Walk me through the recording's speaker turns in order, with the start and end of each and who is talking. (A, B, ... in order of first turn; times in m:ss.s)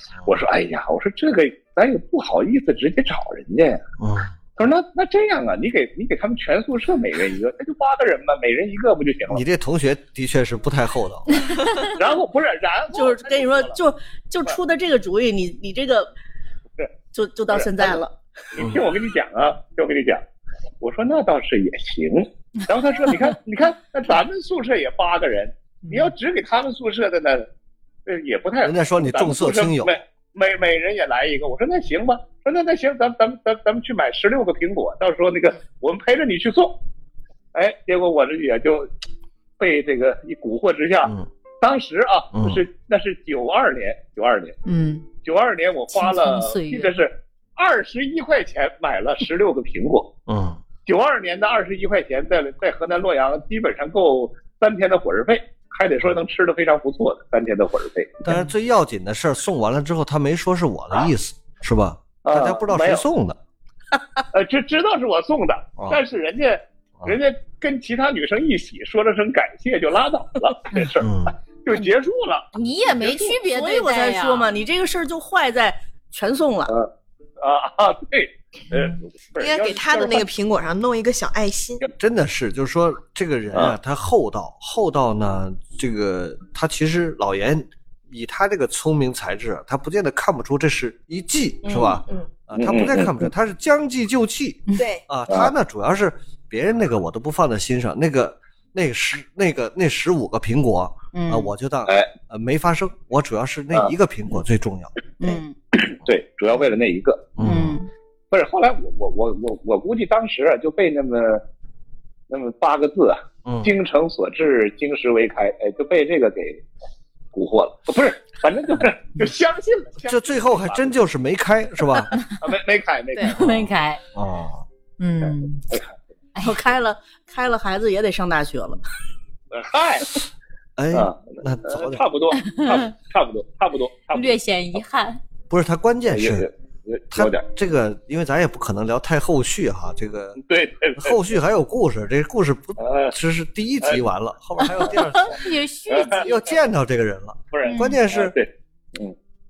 0:00.2-0:03.8 A
0:04.0-0:04.4 B
0:04.6-0:09.4 A
0:09.3-0:11.5 B
0:11.4-0:11.9 C
0:11.9-0:13.8 A
0:12.9-0:16.1 D
0:17.1-0:18.1 D
0:17.5-0:18.0 A
0:18.5-0:20.2 A
0:20.8-0:27.5 A
0:28.0-0:36.7 A
0:28.6-0:30.0 B
0:37.5-0:38.9 A
0:39.6-0:44.6 A
0:42.3-0:42.6 B
0:44.6-0:45.0 C
0:45.2-0:50.1 A
0:45.9-0:46.9 C
0:50.3-0:50.6 B
0:50.8-0:58.3 A
0:58.2-1:03.4 B
1:02.2-1:03.0 A
1:04.3-1:11.1 A
1:10.9-1:11.3 B
1:11.6-1:12.4 A
1:12.5-1:14.5 C
1:13.0-1:16.7 D
1:16.7-1:20.3 A
1:19.4-1:21.9 E
1:22.0-1:44.9 B
1:31.6-1:32.2 E
1:32.6-1:33.3 A
1:34.8-1:35.0 E
1:41.1-1:41.5 C
1:45.2-1:45.5 C
1:45.7-1:47.3 A
1:47.4-1:47.8 B
1:47.4-1:47.9 C
1:48.3-1:51.4 A
1:52.3-1:56.6 A
1:53.4-1:53.7 B
1:57.3-2:01.0 A
2:00.0-2:02.1 B
2:02.4-2:03.4 A
2:03.2-2:04.0 C
2:04.1-2:04.6 B
2:05.0-2:05.6 C
2:05.2-2:05.9 A
2:06.3-2:06.6 C
2:06.4-2:08.8 D
2:09.5-2:10.2 A
2:10.8-2:12.0 B
2:10.9-2:14.8 A
2:12.4-2:12.9 C
2:14.1-2:15.2 C
2:15.5-2:16.5 B
2:16.1-2:17.4 A
2:17.1-2:20.4 B
2:20.4-2:21.2 A
2:21.0-2:25.5 B
2:22.8-2:23.1 A
2:25.2-2:26.4 C
2:25.9-2:26.3 A
2:26.1-2:28.3 B
2:27.5-2:29.1 A
2:27.6-2:28.0 C